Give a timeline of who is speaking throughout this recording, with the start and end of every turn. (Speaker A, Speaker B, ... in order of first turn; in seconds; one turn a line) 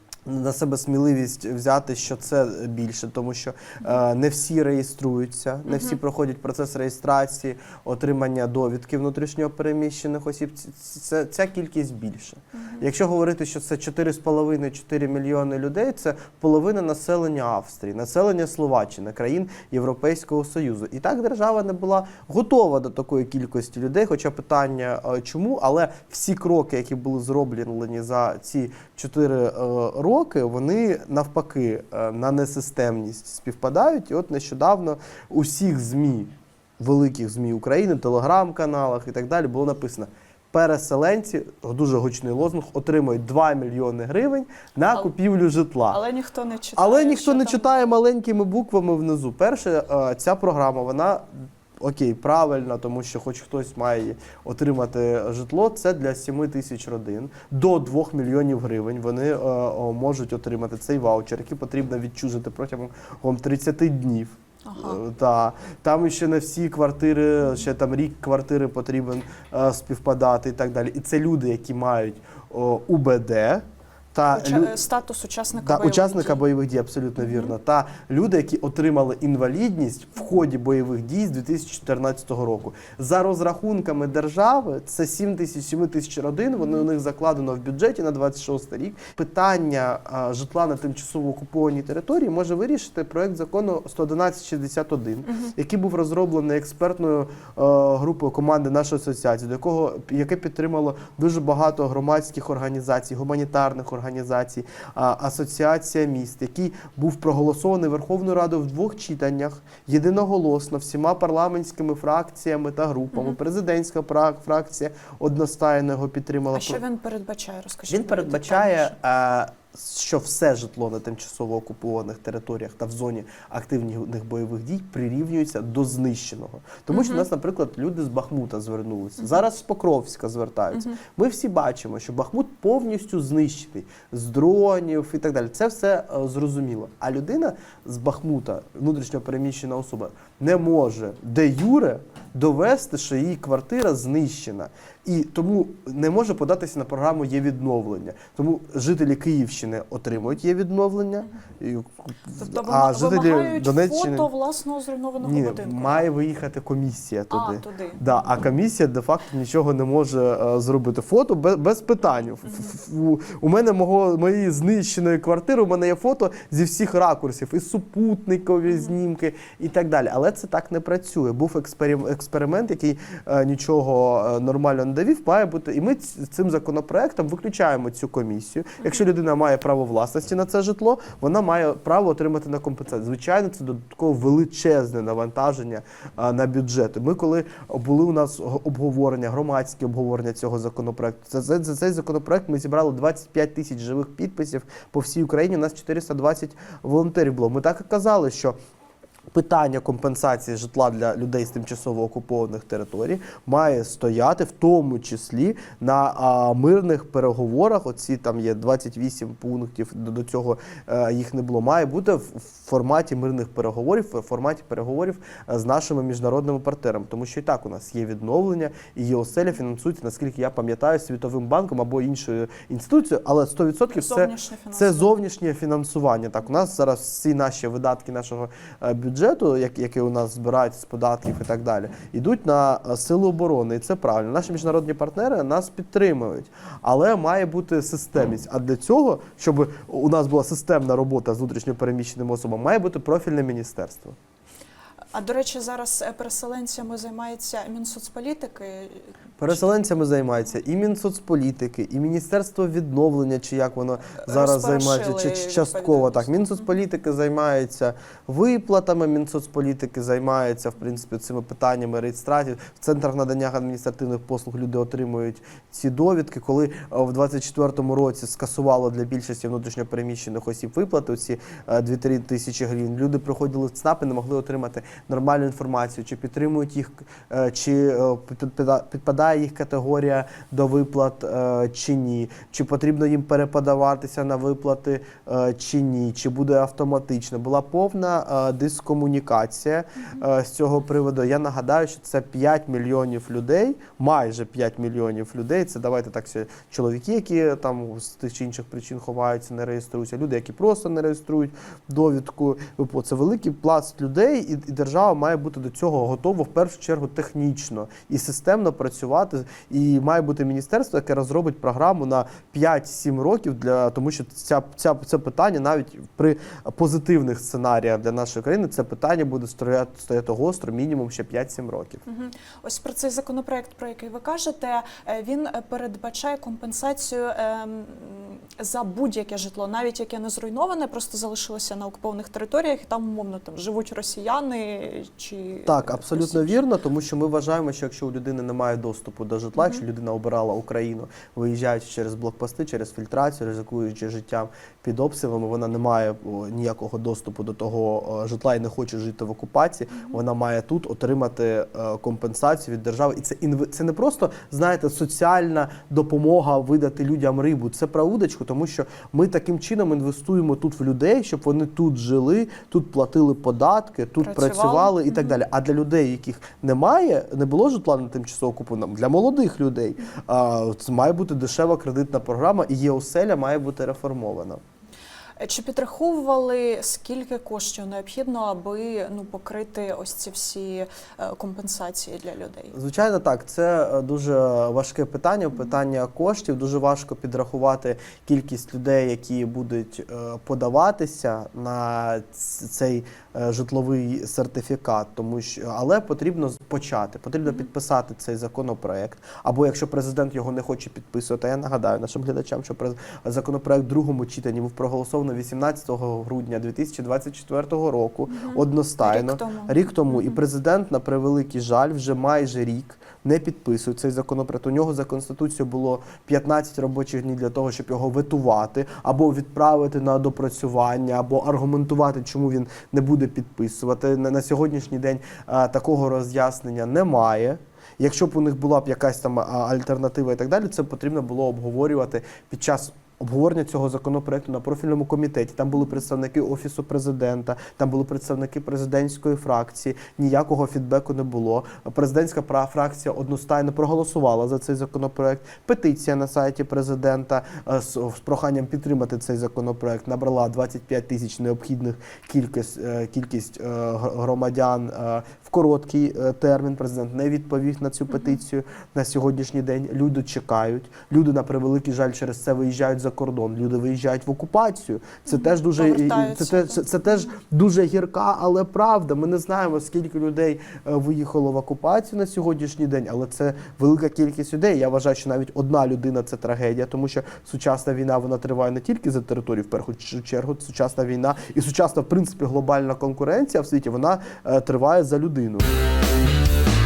Speaker A: 0.2-46.0
Speaker B: 5.7-6.0
Speaker B: 12.5-12.8
Speaker B: 45.9-47.9
Speaker A: 46.8-51.2
Speaker A: 51.8-74.8
Speaker B: 64.6-65.0
Speaker B: 74.3-76.4
Speaker A: 75.6-116.8
Speaker B: 77.2-77.5
Speaker B: 86.6-86.8
Speaker B: 113.1-113.4
Speaker B: 116.5-118.9
Speaker A: 117.9-154.3
Speaker B: 126.9-127.2
Speaker B: 150.1-150.4
Speaker B: 152.4-156.0
Speaker A: 155.2-198.6
Speaker B: 157.3-158.0
Speaker B: 178.8-179.0
Speaker A: 199.3-244.2
Speaker B: 223.9-225.1
Speaker B: 245.1-249.6
Speaker A: 249.4-322.0
Speaker B: 254.2-256.6
Speaker B: 322.1-336.6
Speaker A: 335.6-374.6
Speaker B: 339.6-339.8
Speaker B: 364.2-365.4
Speaker B: 375.4-382.7
Speaker A: 382.7-485.7
Speaker B: 408.3-410.4
Speaker B: 435.7-436.0
Speaker B: 458.1-458.4
Speaker B: 465.2-467.3